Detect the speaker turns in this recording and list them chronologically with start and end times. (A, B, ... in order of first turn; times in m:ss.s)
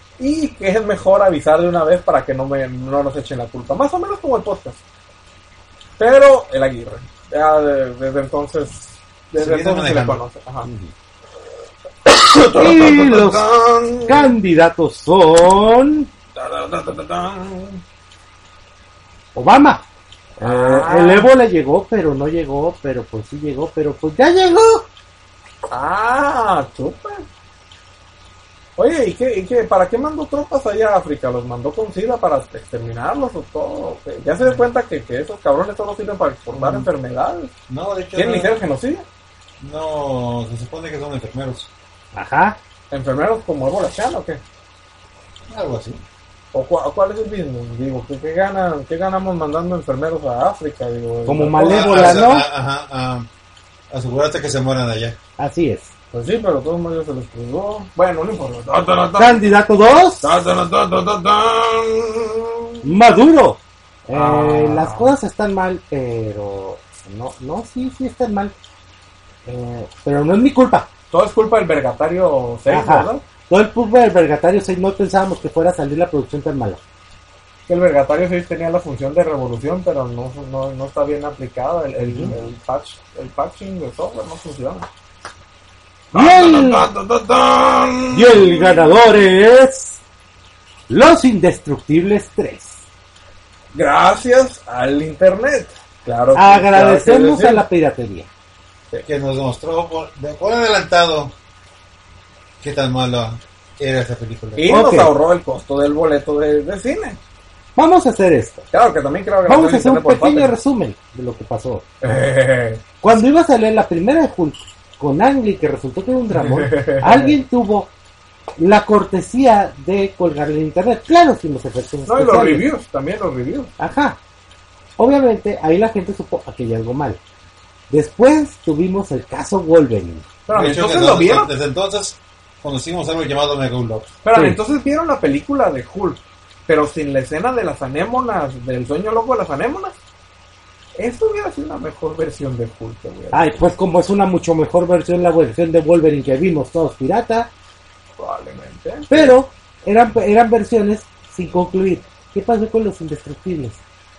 0:00.2-0:04.8 A
0:06.0-0:10.7 A
0:09.4-0:10.2 B
0:10.6-0:10.9 C
0:12.0-0:14.3 A
0:12.6-0:13.4 C
0:14.0-0:16.1 C
0:16.3-0:17.8 A
0:19.3-0:19.8 C
0:20.4-0:24.9 C
0:20.4-0:21.3 A
0:25.7-0:27.2 A
0:28.8-0:37.5 A
0:36.5-0:36.9 B
0:37.7-0:38.5 B
0:38.1-0:39.0 A
0:39.6-0:41.7 B
0:42.1-0:42.6 C
0:42.9-0:44.4 A
0:45.5-0:46.0 B
0:46.5-0:52.2 A
0:51.3-0:52.4 C
0:51.6-0:53.3 B
0:53.9-0:55.2 B
0:55.4-0:55.9 C
0:56.1-0:59.4 A
0:59.2-1:00.3 C
1:00.2-1:02.7 A
1:02.8-1:08.5 C
1:04.1-1:05.1 A
1:09.4-1:10.9 C
1:11.1-1:13.2 A
1:12.7-1:16.8 C
1:17.7-1:24.9 A
1:22.0-1:22.3 C
1:26.1-1:29.0 A
1:26.1-1:26.9 C
1:28.1-1:30.0 C
1:30.9-1:32.8 C
1:33.7-1:37.6 A
1:36.3-1:38.3 C
1:39.0-1:41.3 B
1:42.6-1:44.8 B
1:44.6-1:47.2 A
1:44.7-1:45.1 C
1:47.8-1:48.6 C
1:48.7-1:50.5 A
1:49.4-1:51.9 C
1:52.0-1:52.9 A
1:53.0-1:57.9 C
1:56.3-1:57.4 A
1:58.6-2:02.7 C
2:02.1-2:03.7 A
2:03.8-2:04.2 C
2:05.0-2:07.2 C
2:07.9-2:10.3 C
2:10.4-2:11.5 A
2:10.5-2:14.1 B
2:14.2-2:19.9 A
2:21.0-2:23.5 A
2:23.3-2:27.5 C
2:28.2-2:29.3 A
2:29.1-2:33.8 C